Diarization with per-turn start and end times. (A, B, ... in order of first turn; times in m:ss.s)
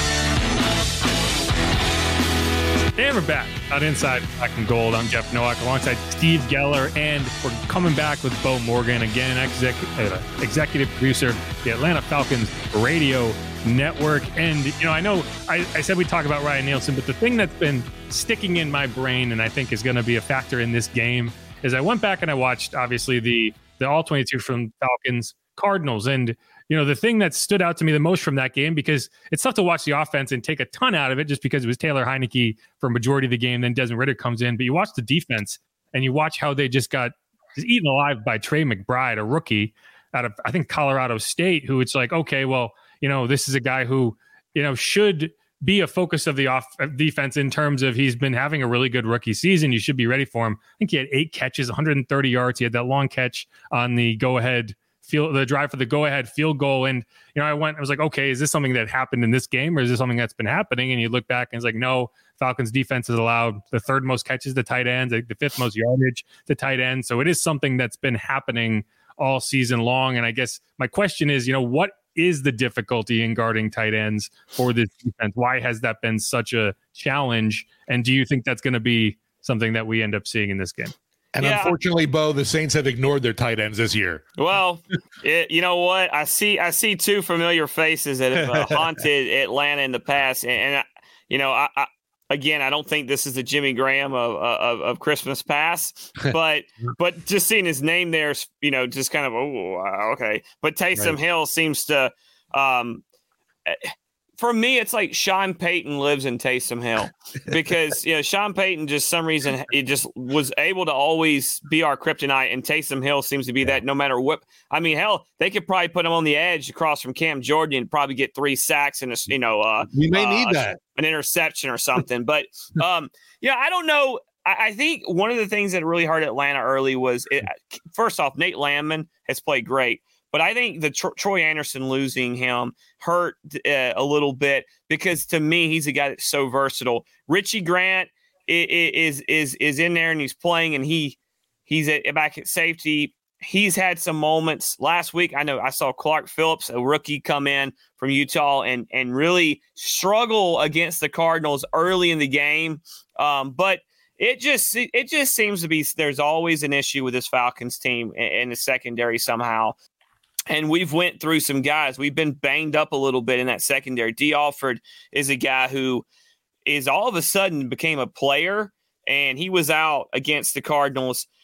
0:03.0-1:20.9 A
1:21.4-1:24.2 B
1:21.4-1:21.8 C
1:24.4-1:43.0 C
1:28.4-1:28.8 B
1:43.7-2:39.8 C
1:59.9-2:00.8 B
2:40.5-2:46.0 C
2:46.7-2:51.3 C